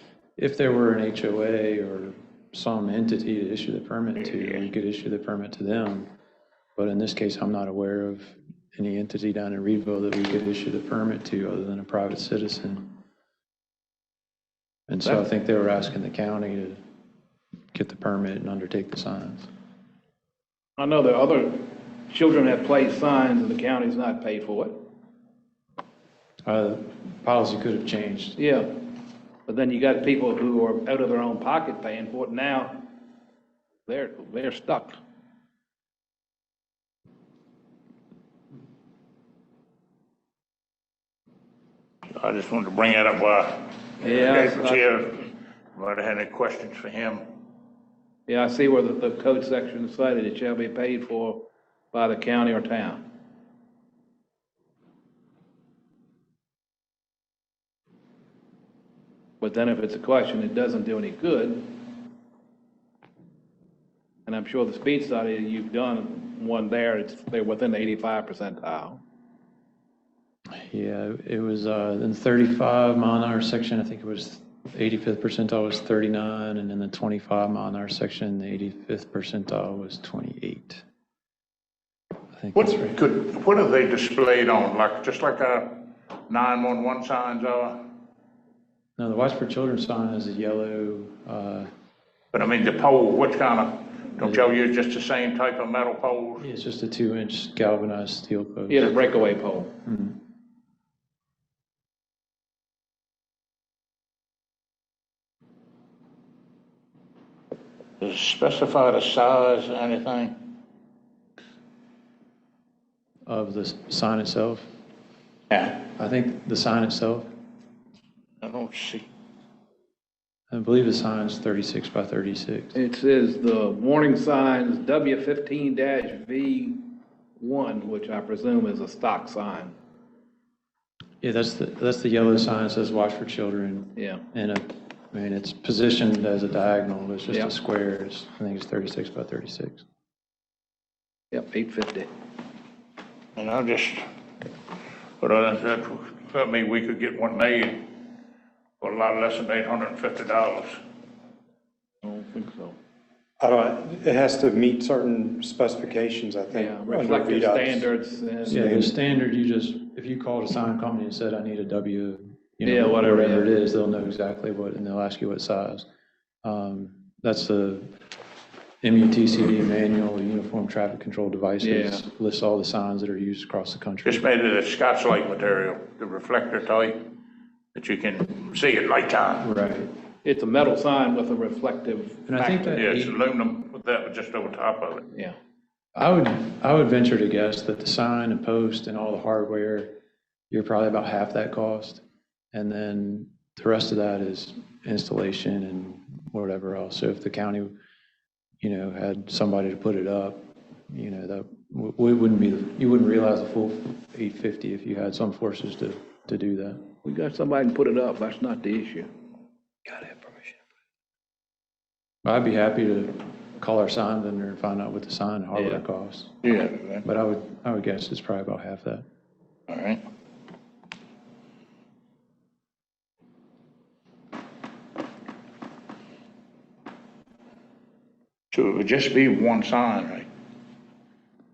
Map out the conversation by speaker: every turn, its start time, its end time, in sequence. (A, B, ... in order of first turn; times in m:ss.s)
0:00.4-0:06.1 A
0:06.8-0:13.0 A
0:14.9-0:16.8 A
0:17.7-0:19.5 A
0:20.8-0:24.8 B
0:26.4-0:28.4 A
0:28.4-0:28.7 B
0:29.5-0:32.9 B
0:33.9-0:35.0 B
0:42.2-0:47.3 C
0:44.0-0:45.0 B
0:48.3-0:53.0 B
0:59.4-1:01.7 B
1:04.2-1:09.0 B
1:10.5-1:20.8 A
1:22.3-1:23.0 A
1:22.5-1:27.9 C
1:29.0-1:31.7 A
1:32.3-1:36.4 C
1:36.4-1:38.9 A
1:38.7-1:39.7 B
1:39.8-1:40.2 A
1:48.0-1:50.4 C
1:53.2-1:54.7 A
1:55.5-1:55.8 C
1:55.8-1:57.3 A
1:58.4-1:59.1 C
2:00.5-2:02.8 A
2:02.7-2:06.8 B
2:07.4-2:09.7 B
2:11.2-2:19.8 A
2:14.0-2:14.2 B
2:21.3-2:22.1 B
2:23.4-2:24.0 C
2:25.2-2:27.9 C
2:28.8-2:30.8 C
2:32.0-2:32.8 B
2:33.4-2:37.9 D
2:36.5-2:38.6 B
2:38.5-2:38.9 D
2:38.5-2:45.9 A
2:42.6-2:43.5 B
2:46.4-2:47.9 A
2:48.8-2:54.2 A
2:51.6-2:52.0 B
2:54.0-2:57.0 C
2:57.7-2:59.5 C
2:59.4-2:59.9 A
3:00.2-3:02.8 B
3:02.3-3:03.2 A
3:02.7-3:05.0 C
3:06.0-3:09.9 A
3:10.5-3:17.7 A
3:18.6-3:26.8 A
3:27.0-3:29.1 B
3:29.9-3:30.5 A
3:32.2-3:36.4 A
3:35.5-3:35.8 B
3:36.4-3:37.0 C
3:37.0-3:39.0 A
3:39.7-3:40.0 C
3:48.5-3:50.3 C